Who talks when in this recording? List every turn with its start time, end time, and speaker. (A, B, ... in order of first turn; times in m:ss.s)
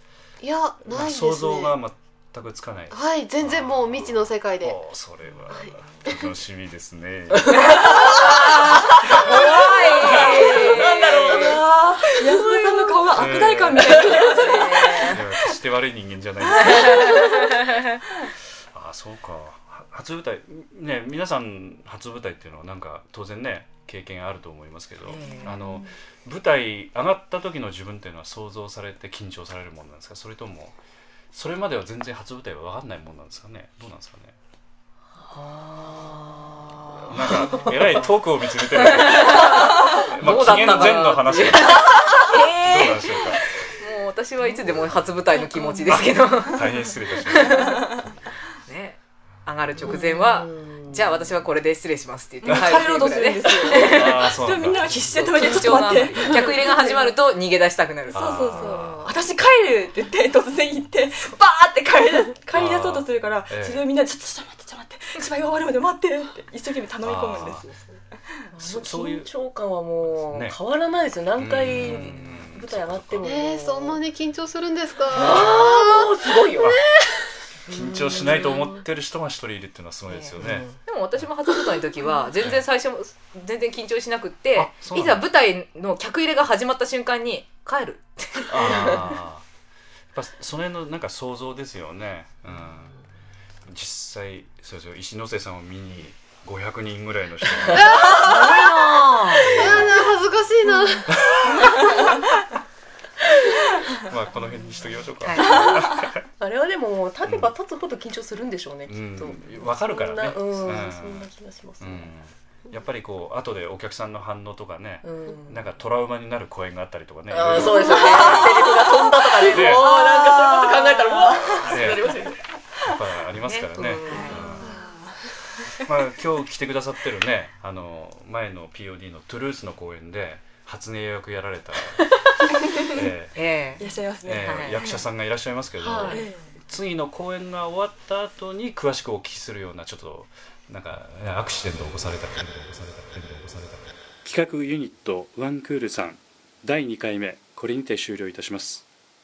0:00.4-0:01.8 A
0:00.8-0:08.3 B
0:02.9-0:04.8 A
0:05.5-0:05.8 A
0:07.5-0:11.6 C
0:07.5-0:13.2 D
0:10.0-0:10.8 B
0:10.5-0:15.2 E
0:13.1-0:14.3 B
0:14.0-0:15.1 D
0:14.4-0:15.1 C
0:14.8-0:17.3 B
0:16.7-0:17.7 E
0:18.7-0:30.8 B
0:25.1-0:25.5 C
0:25.2-0:25.9 D
0:31.3-0:34.4 B
0:35.3-0:38.0 D
0:37.1-0:43.5 B
0:39.2-0:42.4 C
0:42.0-0:43.0 D
0:43.7-0:46.7 C
0:45.5-0:48.1 E
0:45.8-0:47.9 B
0:47.3-0:47.7 C
0:48.7-0:54.2 C
0:49.8-0:51.3 D
0:49.9-0:50.4 E
0:52.4-0:57.2 E
0:52.4-0:52.9 B
0:53.6-0:56.1 B
0:55.2-0:58.4 C
0:58.1-0:59.0 B
0:58.1-1:07.6 E
0:58.5-0:59.2 D
1:02.5-1:03.8 B
1:07.0-1:07.7 B
1:08.5-1:14.0 D
1:08.6-1:09.3 B
1:10.3-1:10.6 B
1:11.4-1:13.3 B
1:13.2-1:16.7 A
1:15.1-1:16.8 D
1:17.7-1:20.7 B
1:17.8-1:18.6 D
1:20.1-1:29.1 C
1:20.4-1:20.8 D
1:22.4-1:22.7 B
1:24.6-1:25.3 B
1:28.5-1:29.4 B
1:30.1-1:33.0 B
1:33.7-1:38.2 B
1:37.7-1:38.7 A
1:38.2-1:39.6 C
1:38.4-1:39.7 D
1:39.3-1:41.2 A
1:39.4-1:39.9 B
1:41.2-1:41.7 B
1:44.0-1:46.2 B
1:45.2-1:45.6 C
1:45.5-1:52.1 D
1:47.2-1:47.5 B
1:48.9-1:58.8 B
1:55.0-1:55.7 D
1:57.3-2:02.4 D
1:59.4-1:59.9 B
2:01.6-2:02.2 B
2:02.8-2:04.8 B
2:03.7-2:04.7 D
2:04.1-2:05.3 E
2:05.8-2:13.6 B
2:13.4-2:13.9 C
2:13.8-2:15.1 E
2:14.2-2:28.9 B
2:14.4-2:14.8 C
2:15.8-2:16.3 D
2:16.0-2:16.5 E